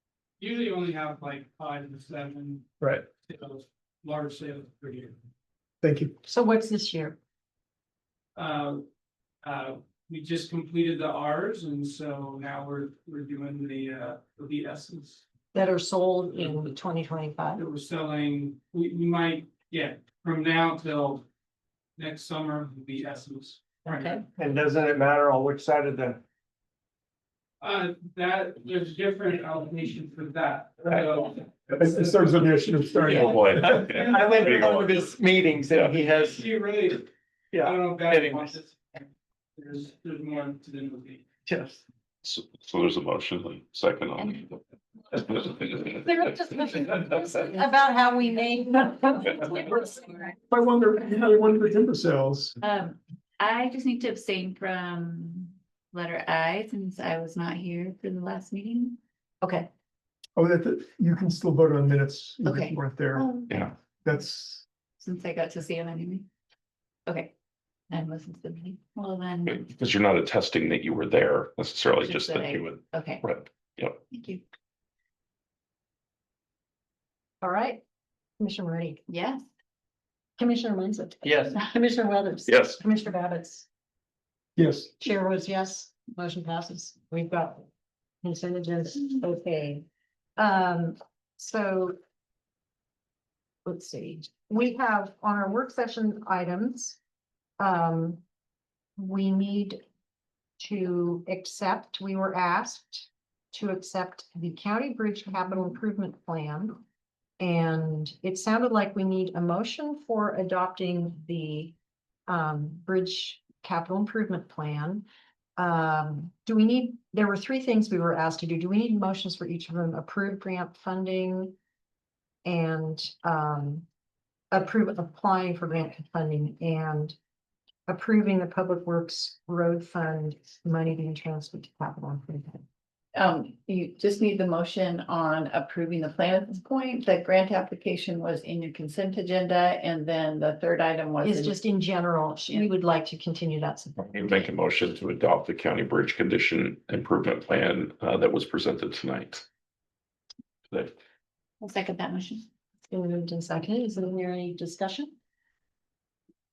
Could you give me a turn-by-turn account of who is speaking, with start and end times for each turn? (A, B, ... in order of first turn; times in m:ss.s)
0:00.4-0:02.7 A
0:03.2-0:05.2 A
0:05.8-0:06.1 B
0:06.2-0:07.2 C
0:08.4-0:08.8 A
0:09.4-0:15.2 A
0:15.5-0:17.6 C
0:17.6-0:21.3 A
0:22.0-0:24.2 A
0:24.4-0:26.2 D
0:27.6-0:32.3 A
0:31.7-0:33.9 B
0:33.0-0:35.1 E
0:33.1-0:33.4 A
0:33.6-0:36.5 D
0:34.0-0:34.6 A
0:36.0-0:39.0 A
0:37.5-0:38.6 D
0:39.6-0:41.3 A
0:41.5-0:41.8 D
0:42.2-0:44.6 E
0:45.2-0:45.9 E
0:45.9-0:50.0 C
0:50.4-0:52.6 B
0:52.6-0:59.0 F
0:59.4-0:59.7 C
1:00.4-1:03.3 B
1:02.4-1:03.6 F
1:03.5-1:03.7 E
1:04.0-1:04.7 B
1:05.0-1:06.2 F
1:07.9-1:09.7 F
1:09.5-1:14.0 E
1:12.0-1:13.2 F
1:14.1-1:14.4 F
1:17.4-1:17.8 C
1:18.4-1:19.0 C
1:19.1-1:19.4 F
1:20.4-1:23.7 C
1:21.2-1:21.6 D
1:22.5-1:22.8 E
1:24.6-1:24.9 B
1:25.0-1:27.7 C
1:28.2-1:29.9 C
1:30.4-1:32.0 C
1:33.6-1:37.0 C
1:37.6-1:38.2 C
1:39.0-1:39.8 C
1:40.6-1:46.8 C
1:47.4-1:51.7 C
1:52.3-1:55.0 C
1:55.6-2:01.6 C
2:02.4-2:03.9 C
2:04.5-2:07.2 C
2:07.9-2:12.6 C
2:13.2-2:21.6 G
2:21.2-2:24.5 C
2:24.2-2:29.4 E
2:30.7-2:30.9 E
2:31.6-2:32.4 F
2:32.9-2:35.1 C